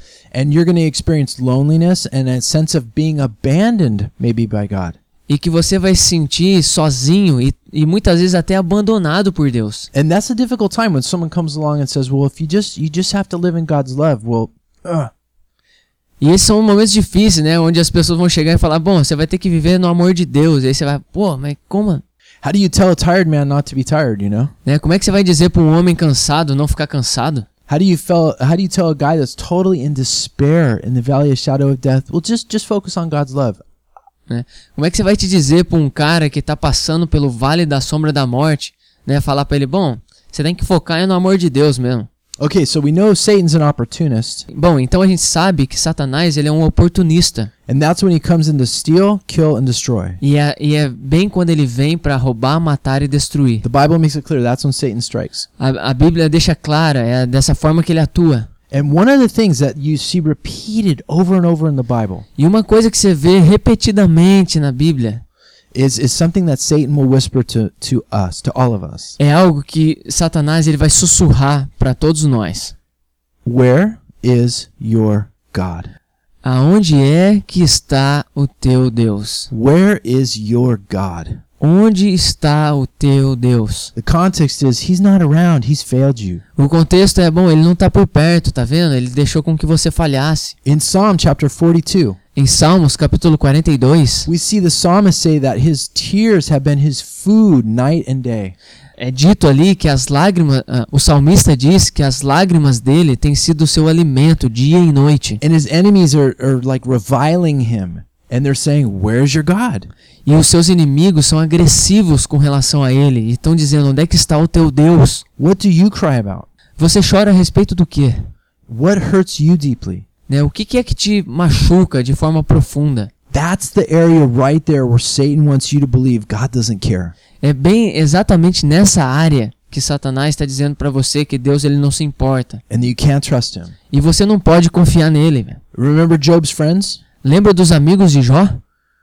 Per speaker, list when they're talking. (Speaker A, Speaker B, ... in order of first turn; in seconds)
Speaker A: 0.3-5.0, 9.9-15.1, 22.4-24.5, 27.7-33.6, 42.4-44.5, 47.7-50.2, 53.6-55.5, 58.7-62.2, 65.7-69.2, 73.5-75.9, 79.5-81.4, 84.0-86.4, 90.7-92.2, 94.3-98.6, 105.4-109.9, 115.4-116.5, 118.7-120.0, 123.3-127.1, 132.7-133.7, 135.7-137.0
Speaker B: 5.3-9.9, 16.2-22.0, 24.6-27.5, 34.3-42.1, 44.5-47.5, 50.2-53.6, 55.6-58.5, 62.4-65.2, 69.2-72.7, 76.4-79.5, 81.6-83.9, 86.6-90.5, 92.4-94.3, 99.0-105.4, 110.3-115.2, 116.8-118.3, 120.3-123.1, 127.4-132.6, 133.9-135.6, 137.2-138.6